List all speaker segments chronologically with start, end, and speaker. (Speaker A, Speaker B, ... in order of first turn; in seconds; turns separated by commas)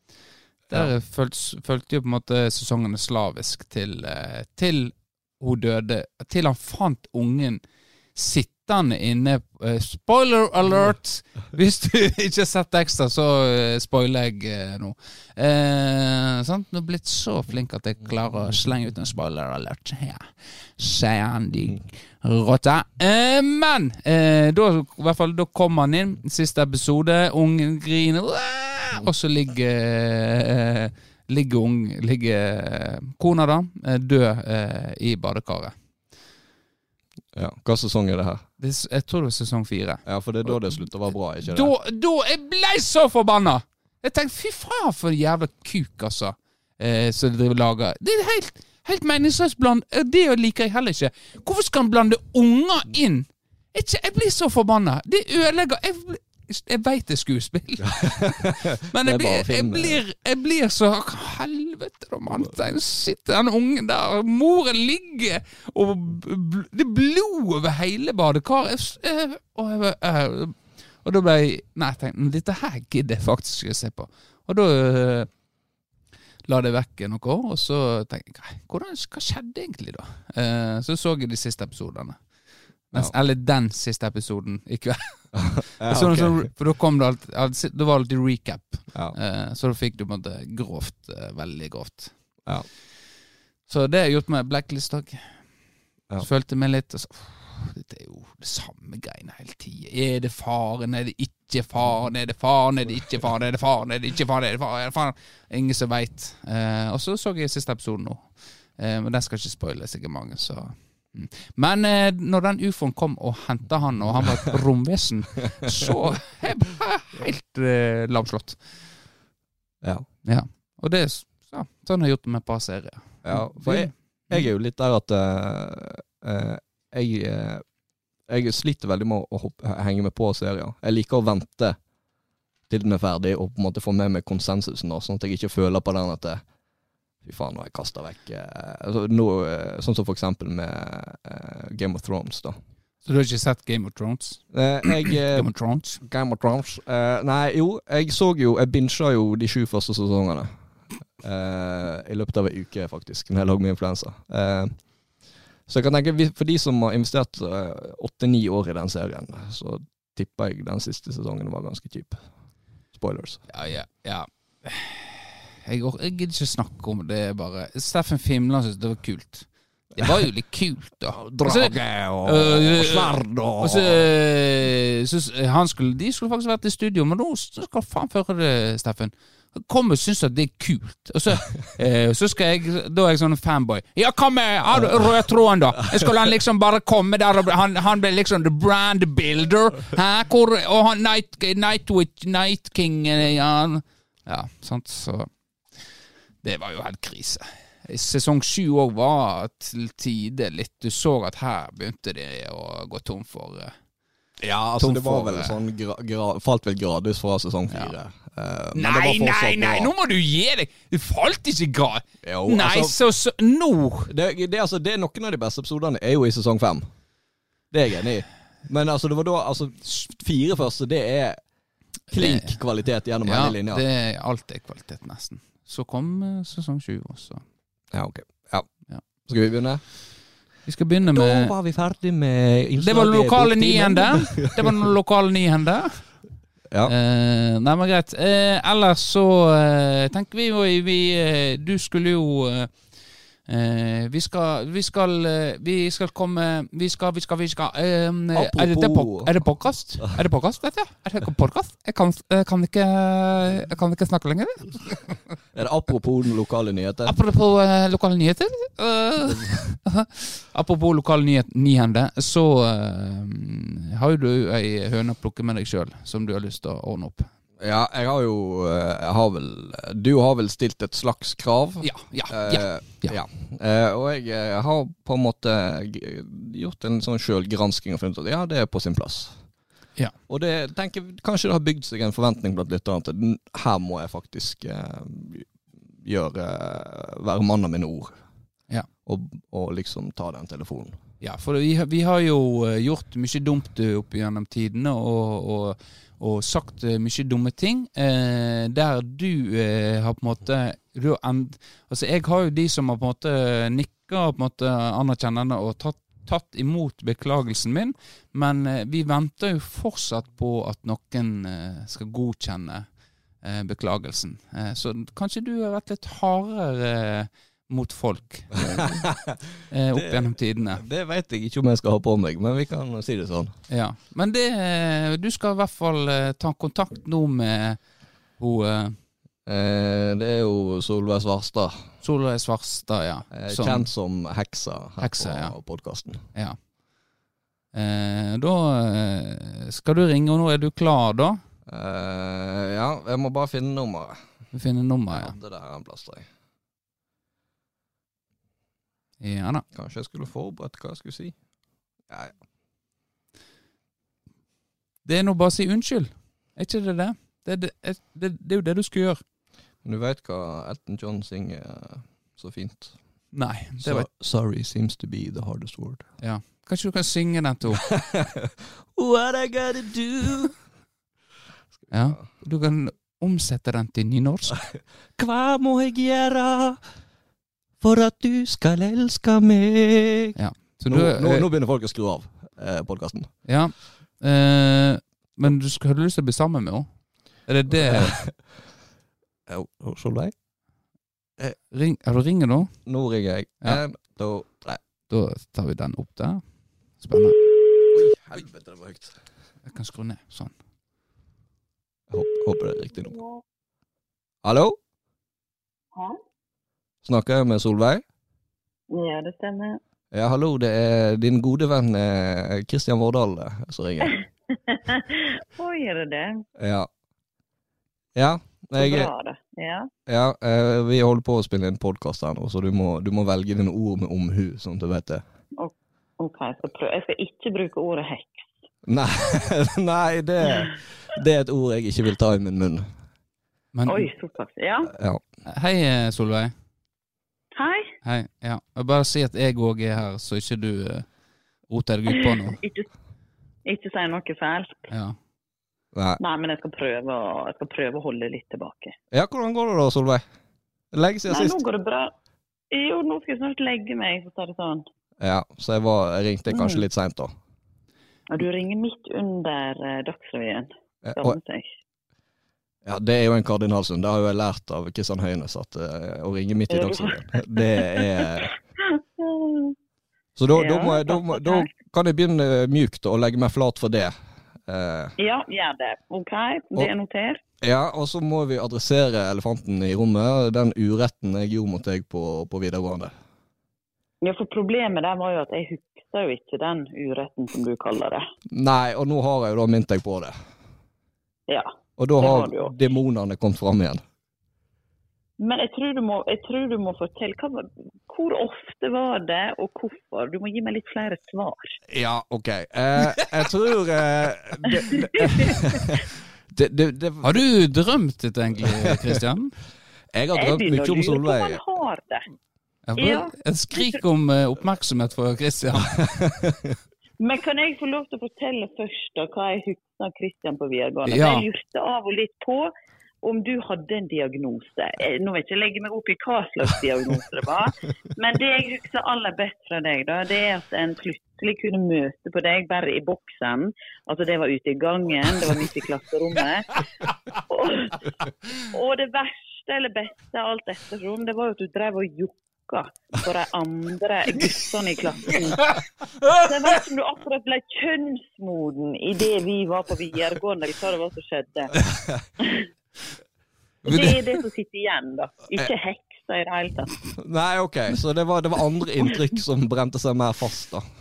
Speaker A: 0.7-7.6, Speaker A: 8.1-35.8, Speaker B: 37.3-38.5, Speaker A: 38.6-75.3, Speaker B: 40.1-41.7, Speaker B: 57.9-60.0, Speaker A: 76.5-92.2, Speaker B: 85.3-86.5, Speaker A: 93.7-95.6, Speaker A: 96.2-119.1, Speaker B: 114.1-114.5, Speaker B: 119.8-120.1, Speaker A: 120.2-124.5, Speaker B: 123.2-127.7, Speaker B: 128.3-131.8, Speaker B: 132.7-136.4, Speaker B: 137.2-142.6, Speaker A: 143.1-146.0, Speaker B: 144.5-150.5, Speaker B: 151.1-155.1, Speaker B: 155.7-162.2, Speaker B: 162.9-163.5, Speaker A: 163.5-195.9, Speaker B: 170.0-170.3, Speaker B: 171.1-174.1, Speaker A: 196.4-203.8, Speaker B: 204.4-209.9, Speaker A: 204.8-205.6, Speaker A: 208.7-214.1, Speaker B: 212.2-213.0, Speaker B: 214.1-216.9, Speaker B: 217.7-221.4, Speaker B: 222.1-223.8, Speaker A: 222.1-222.6, Speaker A: 223.2-227.4, Speaker B: 227.9-229.9, Speaker A: 230.7-231.6, Speaker B: 231.1-234.8, Speaker A: 232.8-236.2, Speaker A: 236.8-255.2, Speaker B: 248.3-249.4, Speaker B: 255.5-257.1, Speaker A: 257.1-267.3, Speaker B: 259.3-259.7, Speaker B: 267.6-279.4, Speaker A: 271.8-273.2, Speaker B: 280.3-288.2, Speaker B: 289.1-291.0, Speaker A: 291.2-312.9, Speaker A: 313.4-319.1, Speaker B: 318.6-323.6, Speaker A: 319.7-320.8, Speaker A: 323.7-329.0, Speaker B: 329.5-331.9, Speaker A: 332.0-333.9, Speaker B: 333.3-336.2, Speaker A: 335.0-335.6, Speaker A: 336.3-336.6, Speaker A: 337.7-341.4, Speaker B: 341.7-344.4, Speaker A: 344.5-345.4, Speaker B: 345.1-346.3, Speaker A: 349.2-349.6, Speaker B: 349.7-351.4, Speaker B: 352.1-352.4, Speaker A: 355.1-359.2, Speaker B: 359.8-363.0, Speaker A: 363.3-364.1, Speaker B: 363.8-366.1, Speaker A: 366.2-367.9, Speaker B: 367.9-370.5, Speaker A: 371.9-374.7, Speaker B: 375.2-376.8, Speaker B: 377.8-383.4, Speaker A: 380.4-381.5, Speaker A: 383.5-388.2, Speaker B: 387.7-388.7, Speaker B: 389.5-390.4, Speaker A: 391.7-392.9, Speaker B: 392.9-394.8, Speaker A: 395.1-396.4, Speaker A: 396.9-397.5, Speaker B: 397.9-399.2, Speaker A: 399.7-400.5, Speaker B: 402.1-403.2, Speaker C: 403.2-403.4, Speaker B: 404.4-404.8, Speaker B: 407.0-408.0, Speaker C: 408.9-409.8, Speaker B: 410.1-414.1, Speaker C: 414.7-416.5, Speaker B: 416.6-416.9, Speaker B: 418.1-419.1, Speaker C: 418.8-419.9, Speaker B: 420.1-425.2, Speaker C: 425.6-428.5, Speaker B: 428.9-432.9, Speaker A: 433.7-434.1, Speaker C: 433.9-434.9, Speaker B: 434.9-435.2, Speaker A: 435.5-436.5, Speaker C: 437.6-437.9, Speaker A: 438.0-441.1, Speaker A: 441.7-442.6, Speaker C: 442.1-442.9, Speaker C: 443.7-444.9, Speaker A: 444.9-445.1, Speaker B: 445.9-446.2, Speaker C: 446.2-448.9, Speaker B: 449.1-450.2, Speaker B: 450.9-451.6, Speaker C: 451.3-452.1, Speaker C: 452.7-454.9, Speaker B: 455.2-457.3, Speaker C: 456.5-456.8, Speaker C: 458.3-461.7, Speaker B: 461.0-461.4, Speaker B: 462.9-468.5, Speaker C: 466.7-469.8, Speaker B: 470.4-475.1, Speaker C: 470.5-471.7, Speaker C: 475.2-477.4, Speaker B: 477.6-483.1, Speaker C: 484.2-488.3, Speaker B: 488.5-490.4, Speaker C: 491.5-492.8, Speaker B: 492.0-494.0, Speaker C: 495.4-501.8, Speaker B: 501.9-507.4, Speaker C: 504.8-505.6, Speaker A: 507.2-509.6, Speaker B: 508.6-509.2, Speaker B: 510.1-511.6, Speaker C: 510.3-512.3, Speaker A: 512.9-516.0, Speaker C: 513.0-514.0, Speaker B: 515.8-516.8, Speaker C: 517.2-522.7, Speaker A: 521.1-521.5, Speaker C: 523.2-536.8, Speaker C: 537.5-538.0, Speaker C: 538.7-545.7, Speaker A: 545.7-546.4, Speaker C: 546.3-551.8, Speaker B: 552.0-552.2, Speaker C: 552.4-552.7, Speaker A: 553.9-554.2, Speaker C: 553.9-557.0, Speaker B: 557.2-560.9